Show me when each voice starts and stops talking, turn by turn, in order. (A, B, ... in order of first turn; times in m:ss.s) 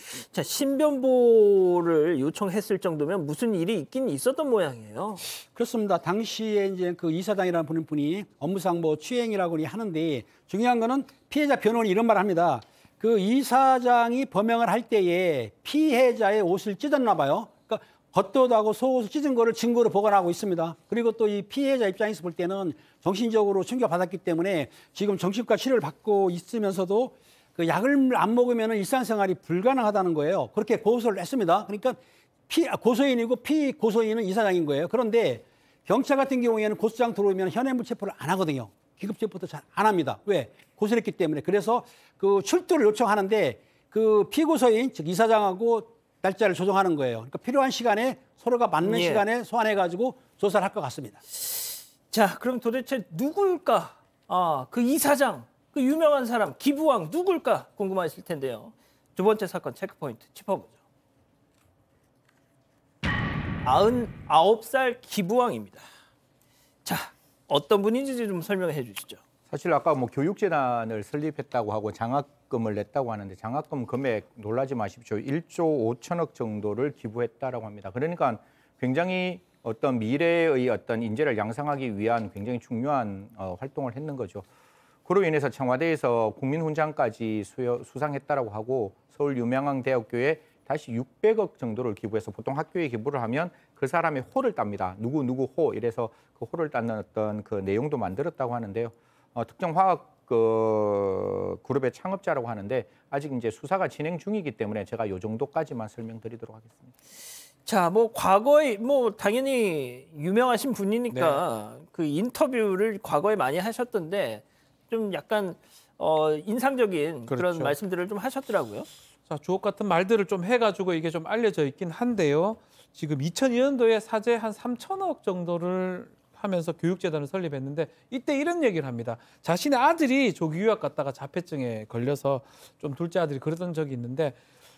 0:00.1-0:05.2 A
0:05.5-0:51.2 B
0:48.8-0:49.2 A
0:51.4-1:00.8 A
1:03.6-1:05.8 A
1:06.8-1:09.2 A
1:09.5-1:24.4 C
1:25.0-1:46.9 C
1:47.7-1:58.9 A
1:51.1-1:51.4 D
1:57.3-1:57.8 D
1:59.3-2:14.4 D